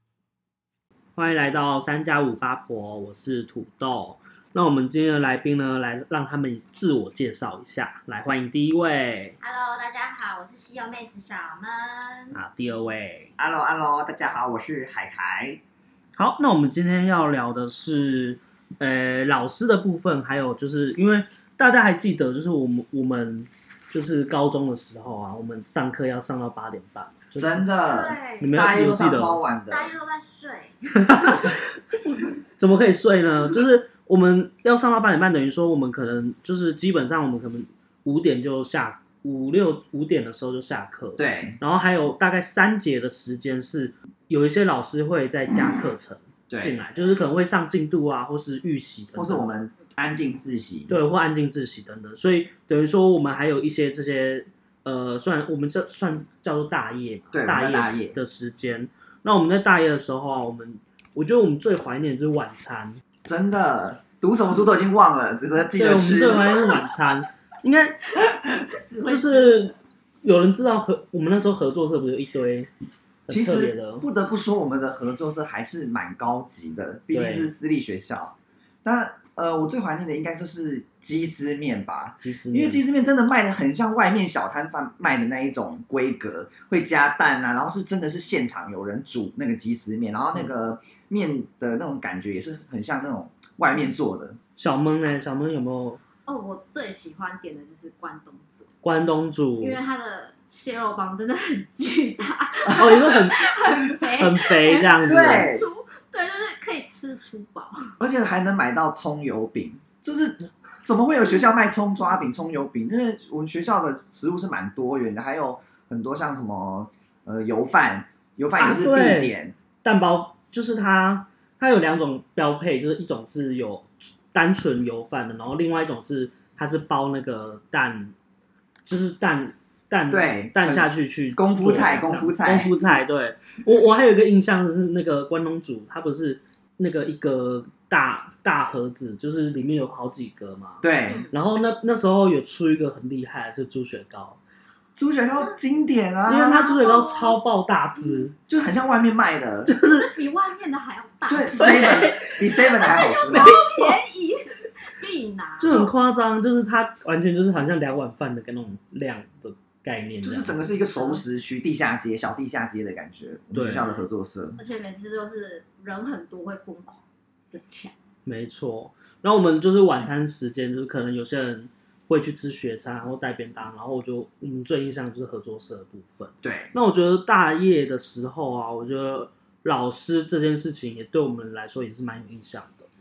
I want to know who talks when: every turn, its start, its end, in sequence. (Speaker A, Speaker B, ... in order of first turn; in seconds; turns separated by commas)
Speaker A: 1.2-9.4, Speaker B: 9.4-12.4, Speaker A: 12.3-13.3, Speaker C: 13.4-15.6, Speaker A: 16.2-27.7, Speaker C: 27.4-29.9, Speaker B: 27.9-28.6, Speaker A: 28.4-29.4, Speaker B: 29.7-31.6, Speaker A: 31.1-31.6, Speaker A: 32.6-49.5, Speaker C: 41.2-41.6, Speaker C: 46.5-46.8, Speaker C: 49.2-51.0, Speaker A: 50.9-63.0, Speaker C: 57.3-58.2, Speaker C: 63.3-66.5, Speaker A: 65.7-68.0, Speaker B: 68.7-69.7, Speaker A: 69.1-72.7, Speaker A: 73.3-74.1, Speaker C: 73.3-94.4, Speaker A: 77.1-77.5, Speaker A: 82.2-82.8, Speaker A: 94.6-96.0, Speaker B: 96.3-98.7, Speaker A: 98.8-99.8, Speaker B: 99.6-107.9, Speaker A: 102.7-103.5, Speaker A: 104.0-105.5, Speaker C: 105.1-105.7, Speaker C: 108.0-119.5, Speaker A: 118.6-128.1, Speaker A: 128.8-144.4, Speaker C: 130.1-132.7, Speaker C: 140.8-141.3, Speaker C: 145.0-146.8, Speaker A: 146.3-148.3, Speaker B: 146.5-147.4, Speaker C: 148.5-149.7, Speaker A: 149.7-150.1, Speaker B: 149.8-155.8, Speaker C: 151.3-153.6, Speaker A: 151.6-152.1, Speaker A: 153.2-154.0, Speaker A: 155.6-160.6, Speaker C: 160.2-164.6, Speaker B: 160.9-161.2, Speaker A: 163.5-163.9, Speaker B: 163.8-164.0, Speaker B: 164.6-167.9, Speaker A: 168.2-182.9, Speaker C: 176.4-176.7